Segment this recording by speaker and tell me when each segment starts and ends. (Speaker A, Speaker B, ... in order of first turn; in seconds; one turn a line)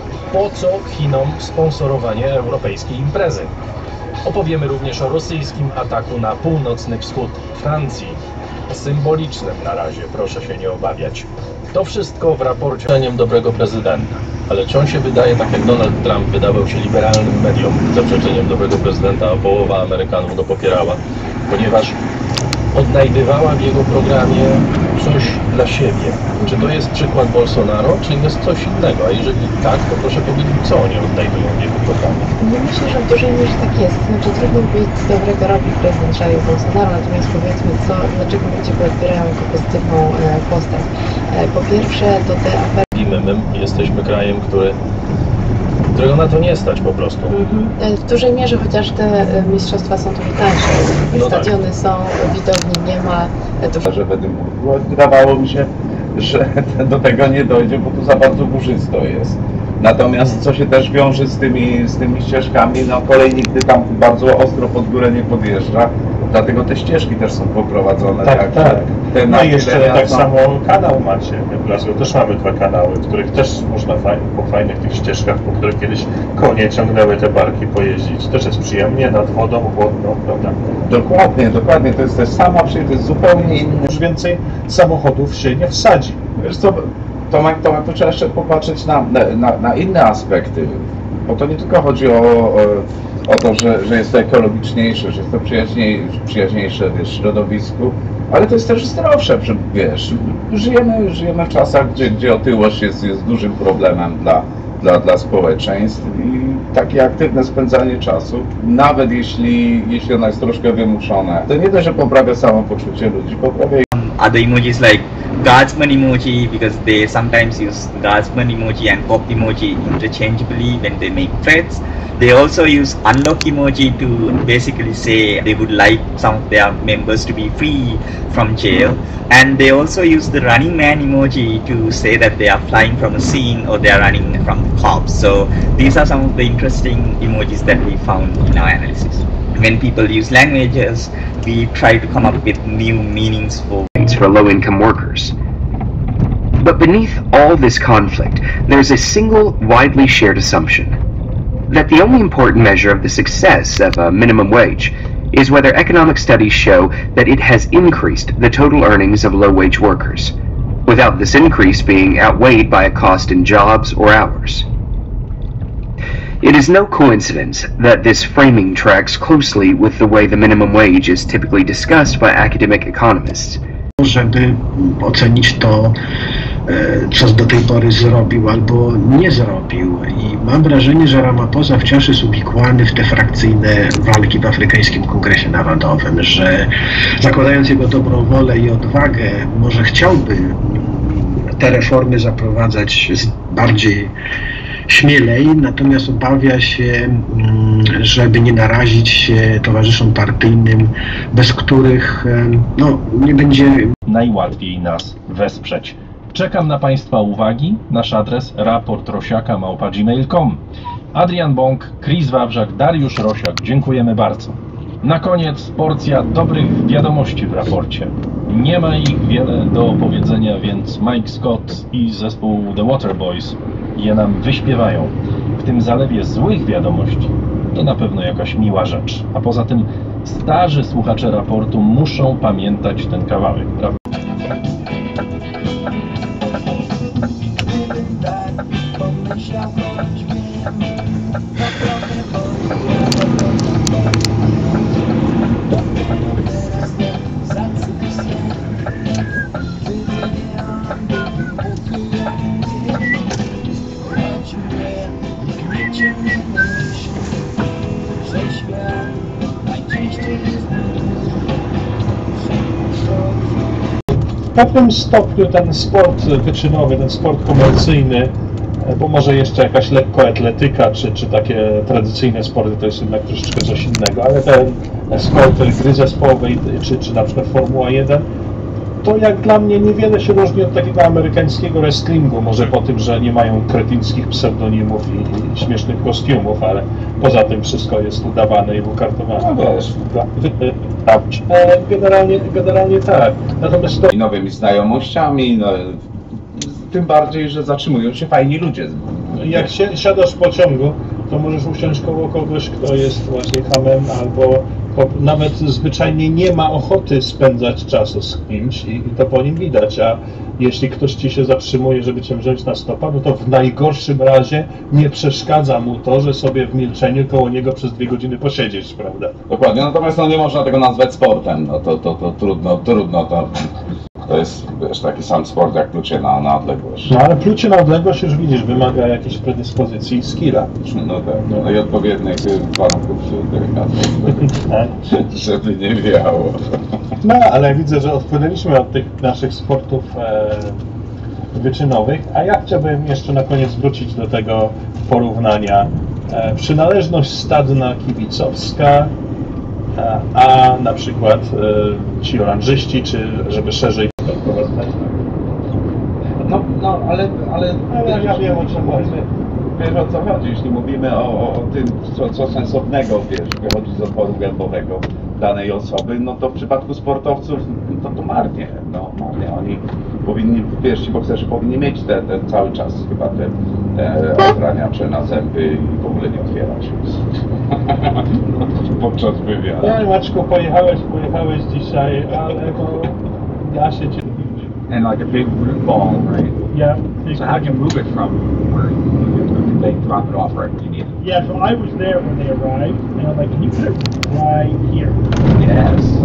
Speaker A: 0.3-3.5
Speaker A: 4.2-22.0
Speaker A: 22.7-32.3
Speaker B: 32.4-42.8
Speaker A: 42.9-44.8
Speaker A: 45.9-47.4
Speaker B: 47.3-53.8
Speaker A: 51.1-51.5
Speaker C: 53.8-70.3
Speaker D: 68.2-80.6
Speaker C: 80.9-83.8
Speaker D: 83.8-86.2
Speaker C: 86.4-113.8
Speaker E: 113.9-143.9
Speaker F: 144.0-145.3
Speaker F: 146.6-151.0
Speaker F: 151.7-160.3
Speaker F: 160.9-164.7
Speaker F: 166.4-173.6
Speaker G: 174.0-175.9
Speaker G: 176.7-186.7
Speaker G: 187.2-194.1
Speaker G: 194.9-203.9
Speaker A: 204.1-210.6
Speaker A: 211.1-234.0
Speaker D: 264.5-278.3
Speaker D: 279.0-294.1
Speaker C: 289.4-290.0
Speaker C: 294.1-299.8
Speaker D: 299.4-319.4
Speaker C: 319.5-323.7
Speaker C: 324.3-327.1
Speaker D: 327.1-330.7
Speaker C: 330.8-337.0
Speaker D: 334.3-334.9
Speaker D: 337.2-340.8
Speaker D: 341.5-349.1
Speaker D: 349.9-355.1
Speaker C: 356.4-359.2
Speaker D: 357.9-359.2
Speaker C: 359.7-377.2
Speaker C: 377.7-380.0
Speaker D: 379.8-383.1
Speaker D: 383.6-384.6
Speaker H: 384.9-386.5
Speaker I: 386.7-387.9
Speaker H: 387.4-388.7
Speaker H: 389.4-391.1
Speaker I: 391.2-395.2